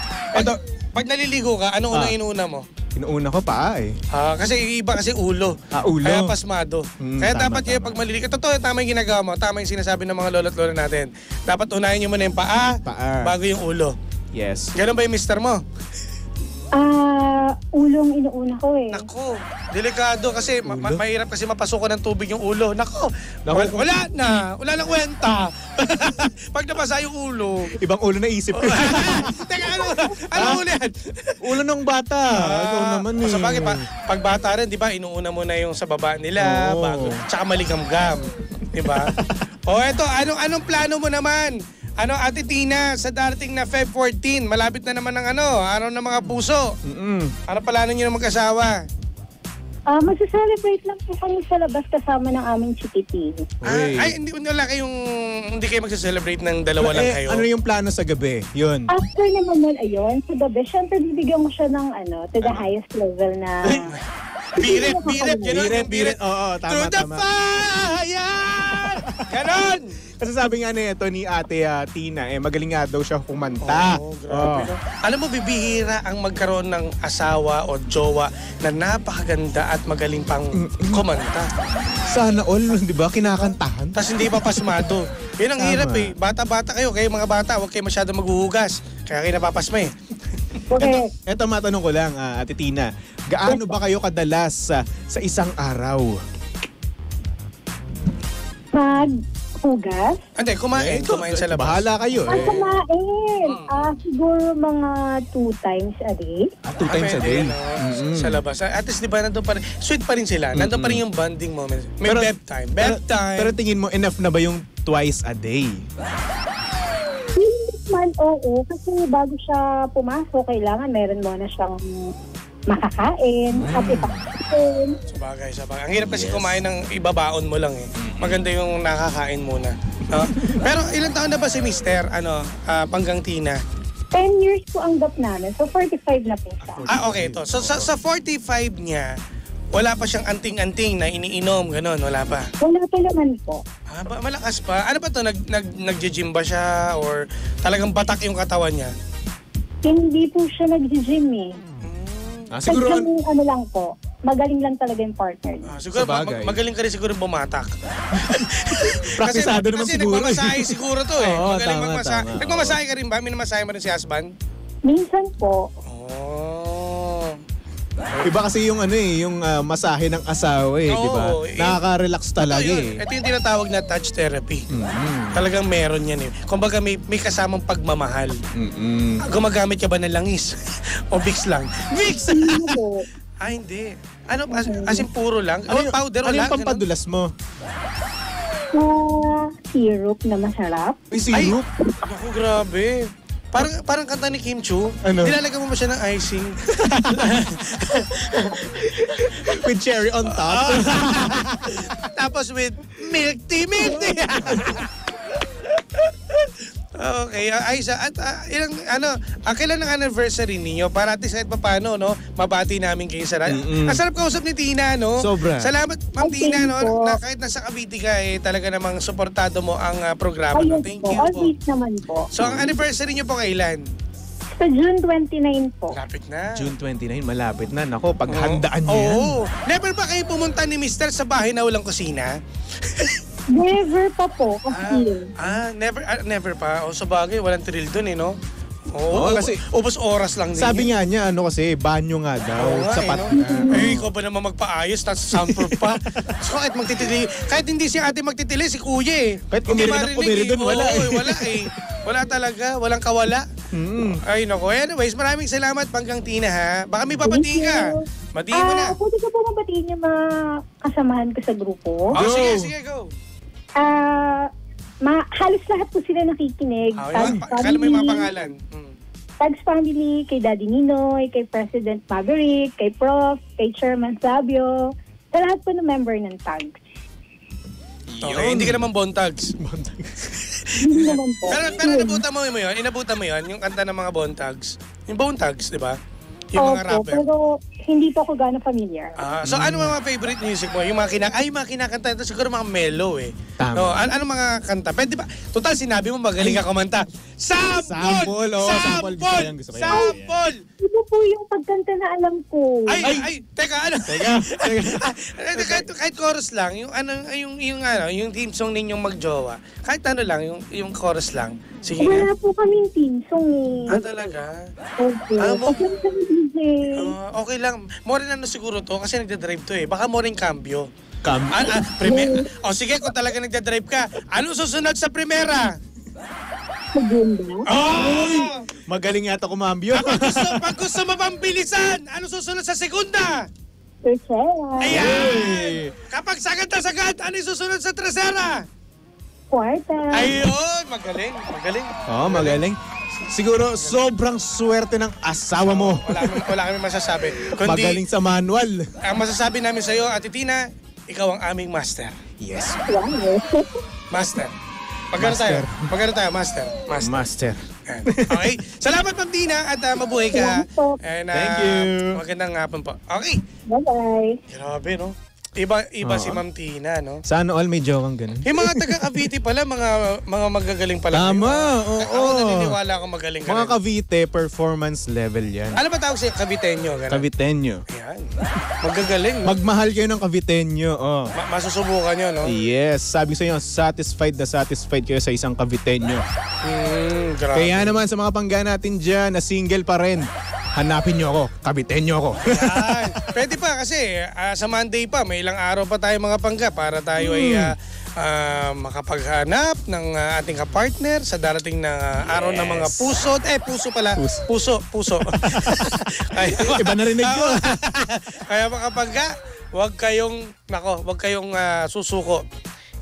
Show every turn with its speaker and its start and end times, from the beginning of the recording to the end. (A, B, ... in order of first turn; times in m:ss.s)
0:00.3-0:02.6 A
0:02.9-0:03.9 B
0:04.1-0:13.9 A
0:05.7-0:06.3 B
0:07.0-0:08.0 B
0:12.8-0:13.3 B
0:14.3-0:14.7 B
0:14.8-0:15.6 A
0:16.7-0:19.1 C
0:18.9-0:27.7 A
0:20.6-0:21.0 B
0:23.4-0:23.8 B
0:27.8-0:29.3 B
0:28.5-0:31.4 A
0:30.3-0:30.6 B
0:31.4-0:33.8 B
0:32.3-0:39.1 A
0:36.4-0:37.2 B
0:38.8-0:39.4 B
0:39.7-0:46.7 A
0:46.8-0:47.3 B
0:47.5-0:48.8 A
0:49.9-0:53.5 C
0:53.6-0:54.1 B
0:53.6-0:57.4 A
0:56.8-0:58.9 B
0:58.9-1:03.8 C
1:04.6-1:10.0 A
1:04.6-1:05.6 C
1:05.4-1:07.2 B
1:10.2-1:14.7 B
1:13.6-1:21.5 A
1:20.6-1:21.0 B
1:22.1-1:24.8 B
1:23.2-1:29.9 A
1:25.6-1:26.1 B
1:30.7-1:31.1 C
1:30.8-1:36.2 B
1:33.4-1:33.8 C
1:38.7-1:40.2 C
1:40.4-1:42.8 A
1:40.7-1:42.6 B
1:42.3-1:46.5 C
1:43.5-1:43.9 A
1:46.6-1:48.4 B
1:46.9-1:53.6 A
1:50.5-1:51.0 B
1:52.0-1:55.8 B
1:57.4-2:02.1 C
2:02.7-2:05.0 C
2:03.5-2:04.2 B
2:05.1-2:13.6 A
2:05.9-2:06.6 B
2:08.0-2:08.4 B
2:14.1-2:16.9 C
2:16.6-2:17.9 B
2:16.9-2:19.1 A
2:19.7-2:22.5 A
2:22.6-2:23.6 C
2:23.9-2:28.9 A
2:29.8-2:31.5 C
2:31.8-2:32.5 A
2:32.5-2:33.1 B
2:32.7-2:35.7 C
2:35.6-2:44.3 A
2:35.9-2:36.6 B
2:39.2-2:42.8 B
2:44.8-2:45.6 C
2:45.9-2:47.4 A
2:48.2-2:53.0 B
2:50.9-2:51.8 A
2:52.4-2:54.7 A
2:54.7-2:55.4 B
2:55.3-2:58.4 A
2:58.5-2:59.2 B
2:59.3-3:00.6 A
3:01.1-3:02.8 A
3:02.3-3:03.0 C
3:03.4-3:06.8 A
3:04.5-3:05.0 C
3:05.7-3:07.3 B
3:08.7-3:11.0 C
3:11.1-3:11.7 B
3:11.3-3:19.6 A
3:15.0-3:15.4 B
3:16.7-3:17.3 B
3:19.2-3:21.8 B
3:20.3-3:24.9 A
3:24.0-3:24.6 B
3:25.6-3:41.5 A
3:33.5-3:34.0 B
3:35.2-3:35.7 B
3:36.2-3:37.2 C
3:40.5-3:42.3 C
3:42.3-3:43.8 A
3:42.4-3:42.7 B
3:44.6-3:46.0 C
3:45.9-3:46.7 A
3:46.5-3:49.3 B
3:48.3-3:52.3 A
3:52.9-3:53.2 A
3:53.5-3:55.3 C
3:54.7-3:58.4 A
3:58.9-4:00.9 A
3:59.1-3:59.6 B
4:00.5-4:04.1 B
4:02.6-4:13.5 A
4:03.3-4:04.0 C
4:05.3-4:06.3 B
4:09.5-4:11.7 B
4:13.7-4:14.2 B
4:14.2-4:19.0 A
4:17.2-4:20.2 C
4:20.8-4:22.1 C
4:22.1-4:23.1 A
4:22.1-4:22.7 B
4:23.8-4:24.5 C
4:25.0-4:28.3 C
4:27.0-4:28.9 A
4:29.4-4:36.8 C
4:38.1-4:38.9 B
4:38.2-4:39.5 A
4:39.6-4:40.3 B
4:40.5-4:46.0 A
4:40.8-4:42.2 C
4:46.5-4:47.2 A
4:46.6-4:49.2 C
4:49.2-5:00.6 A
4:49.4-4:49.9 B
4:53.6-4:54.1 B
4:57.6-5:00.4 B
4:59.9-5:00.2 C
5:00.8-5:03.1 C
5:02.9-5:12.3 A
5:03.0-5:03.3 B
5:04.0-5:05.9 B
5:12.0-5:14.0 C
5:13.9-5:14.7 A
5:15.0-5:17.1 C
5:15.4-5:15.8 A
5:17.0-5:20.9 A
5:21.2-5:21.7 B
5:21.5-5:25.7 A
5:22.0-5:22.4 C
5:26.9-5:28.4 C
5:27.7-5:28.6 A
5:28.9-5:30.6 B
5:29.9-5:33.4 A
5:34.0-5:35.2 C
5:34.8-5:38.6 A
5:34.8-5:35.9 B
5:39.5-5:40.3 C
5:40.1-5:42.6 A
5:42.1-5:42.8 B
5:43.2-5:44.1 A
5:43.3-5:46.4 B
5:45.6-5:48.0 A
5:47.6-5:48.8 B
5:49.0-5:52.2 A
5:52.4-5:52.8 B
5:52.8-5:53.7 C
5:54.1-5:54.5 A
5:55.1-5:57.2 A
5:55.2-5:55.9 B
5:57.0-5:58.5 B
5:57.9-6:03.4 A
6:00.3-6:01.0 C
6:01.3-6:02.2 B
6:03.7-6:04.4 C
6:04.5-6:07.2 A
6:06.0-6:06.4 B
6:07.2-6:09.1 B
6:08.4-6:13.8 A
6:11.1-6:12.8 B
6:13.4-6:15.8 B
6:15.8-6:17.2 A
6:17.1-6:17.8 B
6:17.9-6:18.3 A
6:18.8-6:19.5 A
6:19.4-6:21.3 B
6:21.3-6:22.5 A
6:22.4-6:26.2 B
6:26.6-6:27.9 A
6:27.5-6:33.0 B
6:32.4-6:52.4 A
6:37.2-6:37.7 B
6:42.2-6:43.0 B
6:44.2-6:44.4 B
6:45.2-6:46.0 B
6:46.6-6:47.8 B